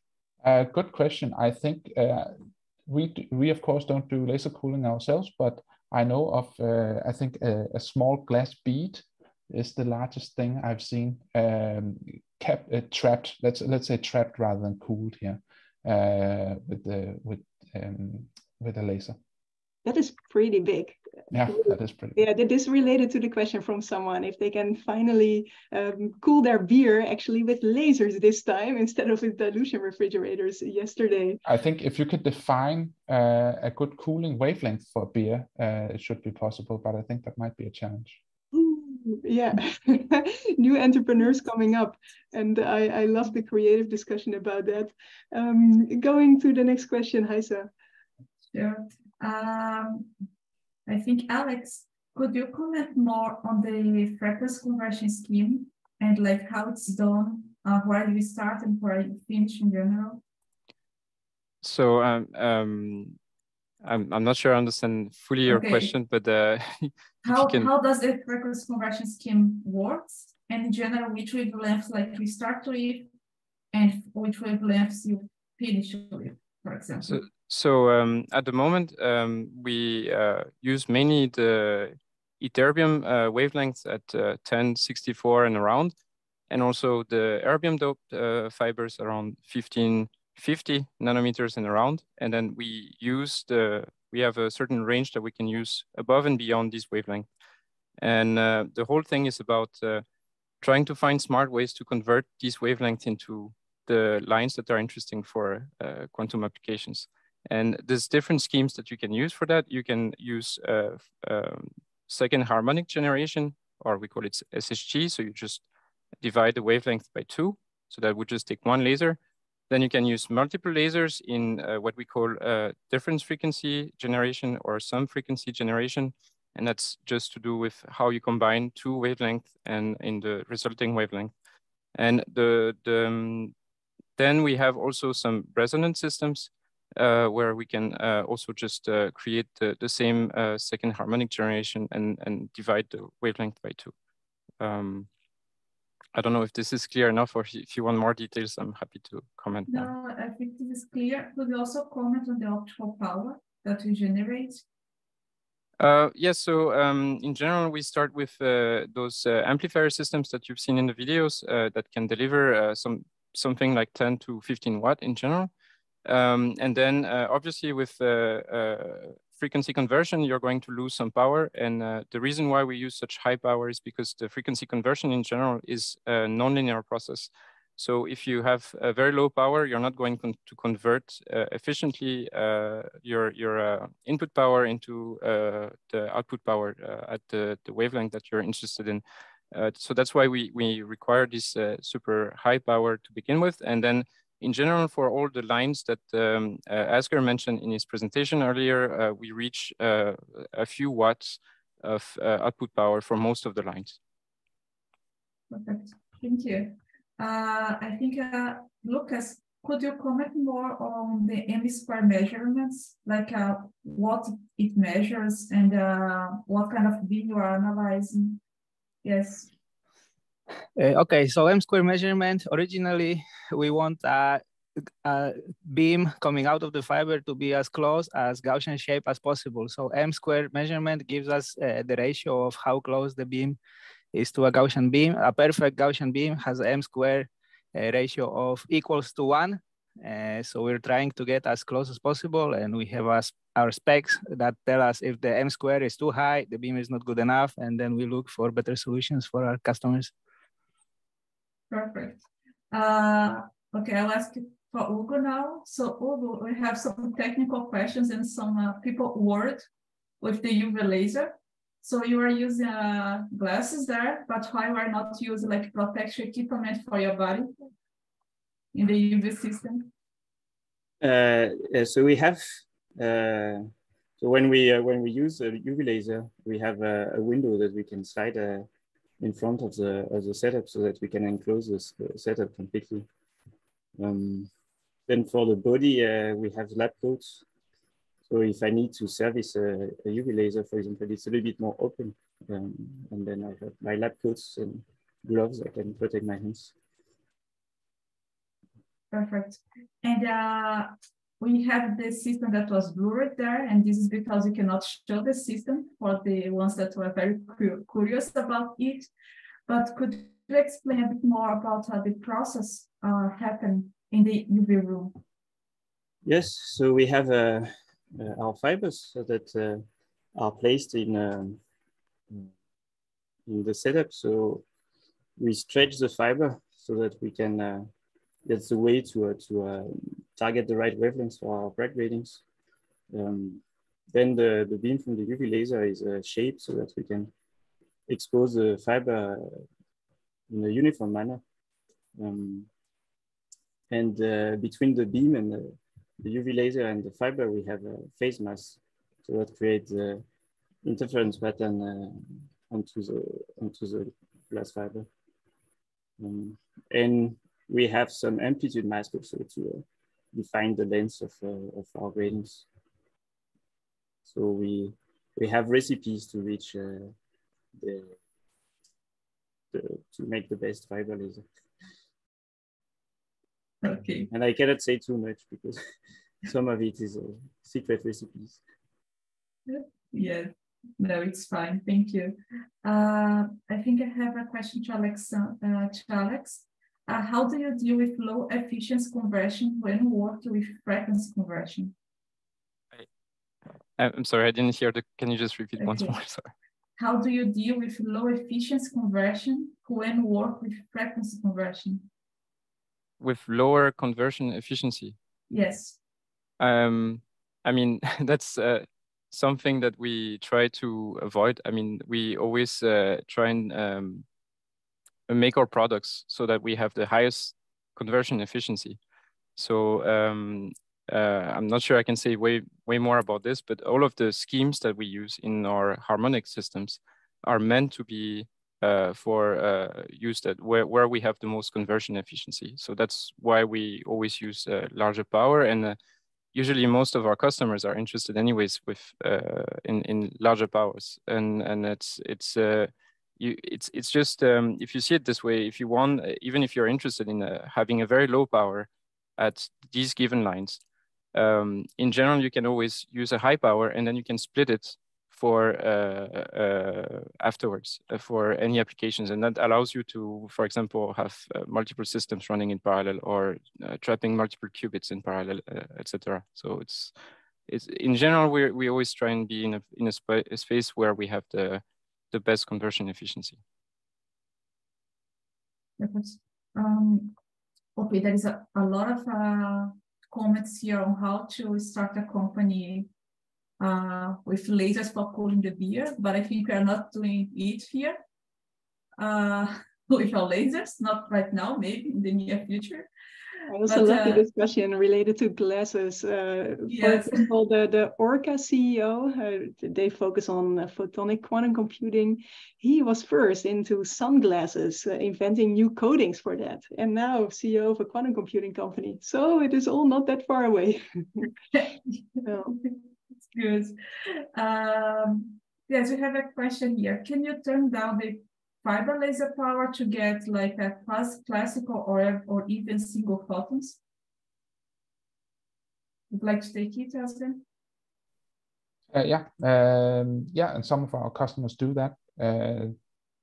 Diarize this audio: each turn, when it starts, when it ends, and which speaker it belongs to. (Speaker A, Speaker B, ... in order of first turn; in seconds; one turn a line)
Speaker A: 0.4-2.3
Speaker A: 2.9-19.2
Speaker B: 19.8-21.6
Speaker A: 21.3-22.2
Speaker B: 22.1-31.4
Speaker A: 31.4-38.2
Speaker B: 38.5-47.7
Speaker C: 48.5-50.1
Speaker C: 50.9-60.2
Speaker D: 61.6-63.2
Speaker D: 63.8-67.7
Speaker C: 65.5-65.9
Speaker C: 67.3-73.1
Speaker C: 73.7-77.2
Speaker D: 77.0-85.9
Speaker D: 86.5-97.3
Speaker D: 98.0-100.0
Speaker D: 100.6-115.6
Speaker D: 116.2-119.2
Speaker D: 119.7-131.3
Speaker D: 131.9-133.5
Speaker D: 134.2-143.9
Speaker D: 144.6-145.1
Speaker D: 146.1-149.9
Speaker C: 149.7-154.6
Speaker D: 155.8-165.5
Speaker D: 166.1-204.0
Speaker C: 205.5-218.4
Speaker C: 219.0-219.5
Speaker E: 220.8-224.4
Speaker E: 225.0-233.6
Speaker E: 234.1-250.1
Speaker C: 251.7-259.6
Speaker C: 260.2-267.5
Speaker C: 268.7-269.9
Speaker F: 271.0-272.4
Speaker F: 273.0-278.7
Speaker F: 279.2-283.1
Speaker F: 284.0-284.5
Speaker F: 285.1-287.4
Speaker F: 288.3-296.7
Speaker C: 299.1-309.1
Speaker C: 309.7-315.2
Speaker F: 316.2-321.6
Speaker F: 323.4-324.6
Speaker F: 325.4-327.9
Speaker F: 328.4-332.4
Speaker F: 333.1-337.3
Speaker F: 338.1-339.6
Speaker F: 340.5-341.4
Speaker F: 342.1-342.7
Speaker F: 343.9-350.2
Speaker F: 350.8-355.1
Speaker F: 356.2-362.6
Speaker F: 364.3-367.1
Speaker F: 367.8-368.1
Speaker F: 369.7-371.4
Speaker C: 373.8-374.3
Speaker F: 374.3-375.8
Speaker F: 376.4-378.6
Speaker C: 379.7-391.9
Speaker D: 394.0-396.5
Speaker C: 395.8-396.1
Speaker C: 397.0-402.1
Speaker D: 403.2-405.2
Speaker C: 405.5-406.0
Speaker D: 406.6-414.2
Speaker D: 415.3-419.0
Speaker D: 419.6-436.0
Speaker D: 436.5-450.8
Speaker D: 451.3-467.1
Speaker D: 467.7-473.6
Speaker C: 476.0-477.3
Speaker C: 478.0-483.1
Speaker C: 483.8-488.2
Speaker C: 489.2-493.1
Speaker B: 493.7-511.5
Speaker C: 493.9-494.4
Speaker C: 496.9-497.4
Speaker C: 511.8-513.0
Speaker B: 512.4-512.8
Speaker C: 513.5-514.0
Speaker C: 514.5-524.0
Speaker C: 526.3-527.6
Speaker A: 529.1-533.0